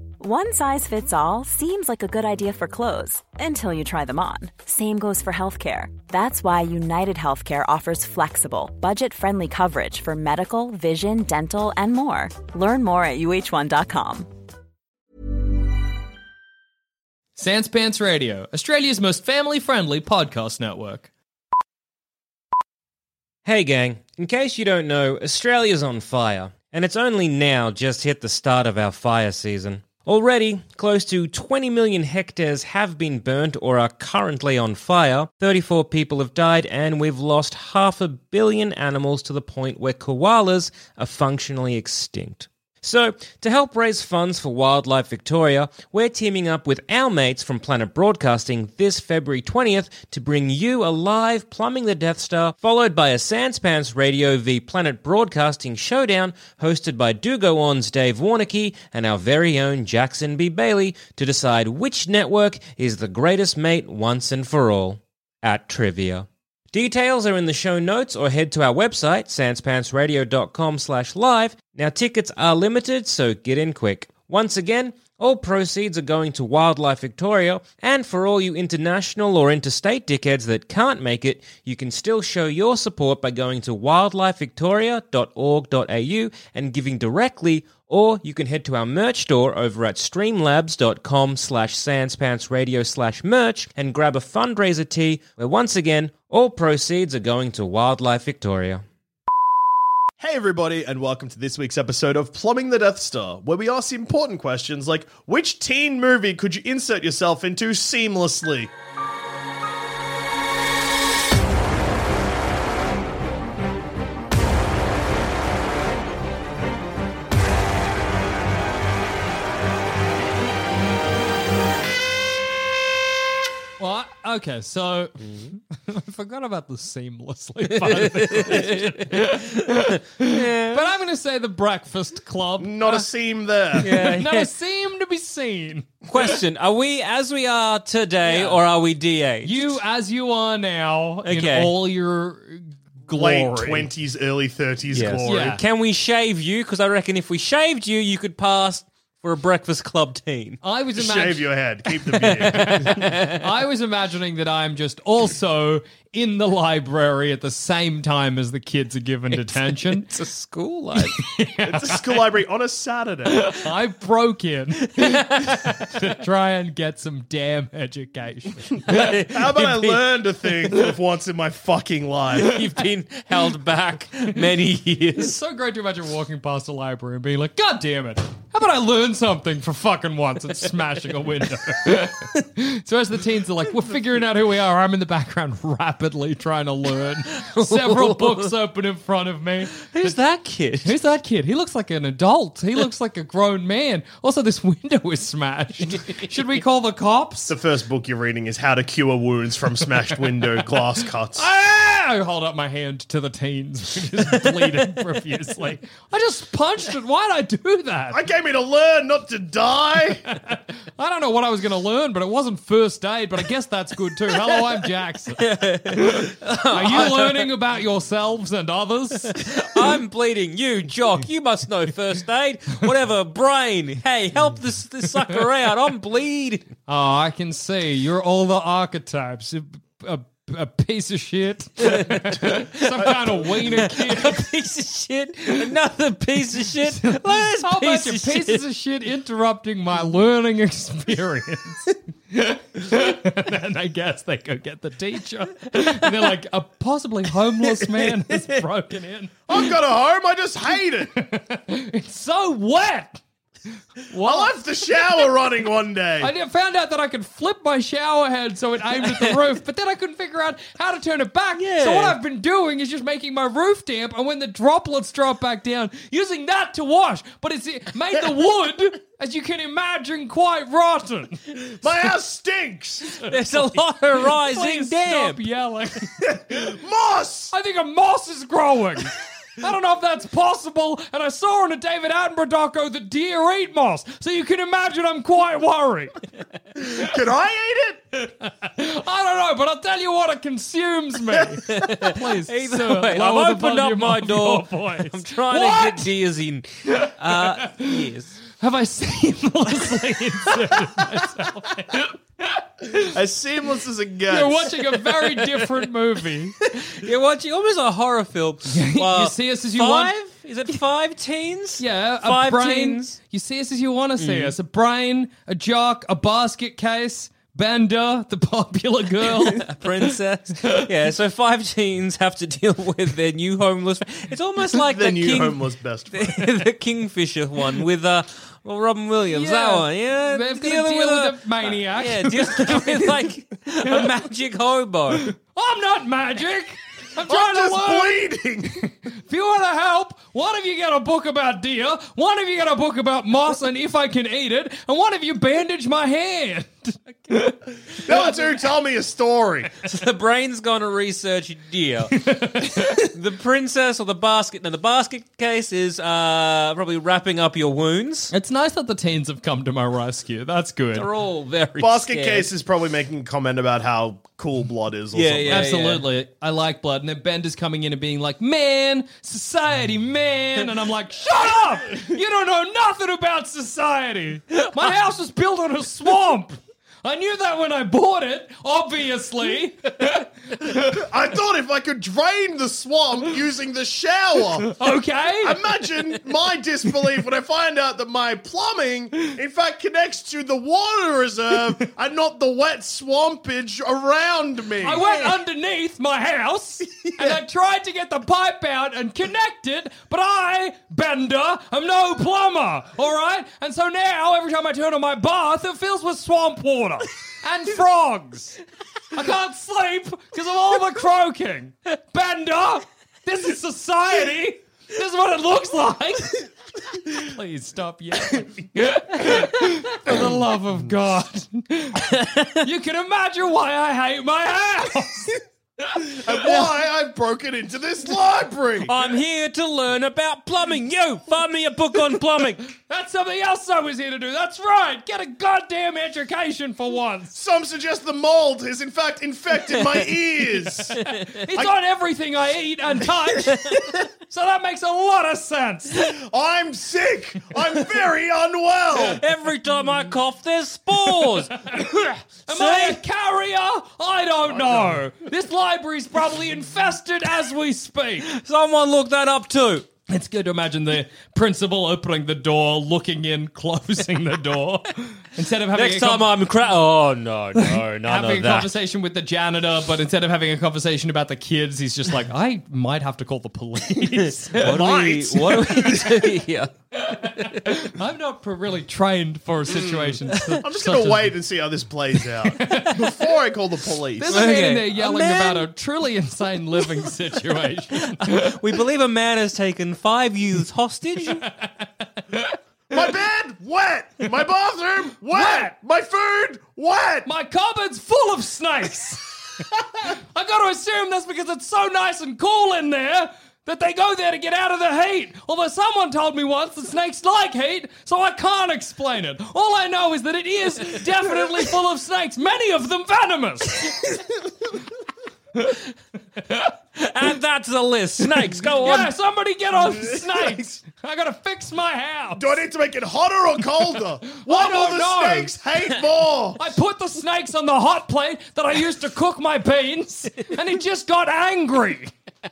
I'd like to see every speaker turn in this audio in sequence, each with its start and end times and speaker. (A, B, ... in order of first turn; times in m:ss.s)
0:00.2-0:14.3 A
0:17.4-0:21.1 B
0:23.4-1:38.8 C
1:40.2-1:48.7 D
2:03.8-2:13.1 B
2:07.7-2:10.9 C
2:12.6-2:13.9 D
2:13.7-2:16.3 B
2:13.8-2:14.5 C
2:16.1-2:19.7 C
2:18.2-2:18.6 B
2:19.4-2:23.9 B
2:21.2-2:21.7 C
2:23.1-2:25.5 D
2:24.9-2:30.6 C
2:25.2-2:25.6 B
2:30.6-2:40.1 B
2:31.0-2:33.1 D
2:32.4-2:33.5 C
2:39.4-2:41.3 C
2:41.0-2:42.2 B
2:41.6-2:43.6 D
2:43.4-2:48.9 B
2:44.8-2:46.1 C
2:48.9-2:50.1 C
2:48.9-2:52.6 D
2:52.4-2:55.4 C
2:55.2-3:10.1 B
3:07.5-3:08.5 C
3:09.9-3:11.0 C
3:10.8-3:17.5 B
3:15.9-3:16.2 C
3:17.5-3:21.4 D
3:21.3-3:28.2 B
3:28.1-3:30.3 D
3:30.5-3:35.4 B
3:35.4-3:37.5 C
3:36.0-3:39.8 B
3:39.4-3:46.7 C
3:46.9-3:54.5 B
3:51.8-3:58.6 C
3:56.8-4:09.4 B
4:09.5-4:11.1 D
4:11.1-4:13.2 B
4:14.0-4:14.5 B
4:14.2-4:16.3 D
4:16.2-4:32.1 B
4:19.0-4:19.4 C
4:21.6-4:22.2 C
4:31.8-4:33.2 D
4:33.2-4:35.4 C
4:33.3-4:36.2 B
4:36.5-4:37.5 D
4:37.5-4:46.2 B
4:46.8-4:48.0 D
4:48.3-4:56.1 B
4:51.8-4:58.4 C
4:57.0-5:03.0 B
5:03.1-5:05.0 D
5:04.3-5:06.7 B
5:06.9-5:13.2 C
5:08.7-5:10.1 B
5:11.8-5:19.8 B
5:14.2-5:14.5 C
5:19.4-5:25.6 C
5:24.8-5:26.6 D
5:26.1-5:35.3 C
5:29.3-5:33.3 B
5:35.2-5:38.3 B
5:37.3-5:38.9 D
5:39.3-5:47.6 B
5:48.0-5:49.8 D
5:49.8-5:58.3 C
5:52.2-5:53.0 B
5:58.3-6:01.1 B
6:00.9-6:02.5 C
6:01.8-6:05.7 D
6:05.1-6:06.1 C
6:05.5-6:20.8 B
6:20.9-6:24.7 D
6:24.6-6:25.6 B
6:25.4-6:35.1 D
6:34.8-6:48.6 B
6:49.1-7:05.4 B
7:02.1-7:02.6 C
7:06.1-7:08.9 D
7:08.8-7:12.7 C
7:12.8-7:17.4 B
7:17.3-7:21.0 D
7:21.0-7:21.3 C
7:21.3-7:26.0 B
7:26.0-7:29.2 D
7:28.9-7:33.0 C
7:31.3-7:31.9 B
7:32.5-7:38.3 B
7:34.5-7:35.0 D
7:38.2-7:39.9 C
7:40.1-7:46.3 B
7:45.7-7:48.7 C
7:47.7-7:54.8 B
7:54.5-7:57.8 C
7:54.6-7:56.1 D
7:57.0-8:01.4 B
7:59.8-8:04.5 D
8:00.3-8:00.6 C
8:02.4-8:03.3 B
8:04.2-8:08.6 B
8:04.3-8:05.7 C
8:08.0-8:11.4 C
8:11.3-8:12.6 B
8:12.9-8:17.3 D
8:15.3-8:15.7 B
8:17.2-8:19.3 B
8:20.0-8:34.0 B
8:37.0-8:39.1 C
8:38.8-8:42.6 B
8:42.4-8:46.6 D
8:44.4-8:45.6 B
8:46.6-8:52.1 B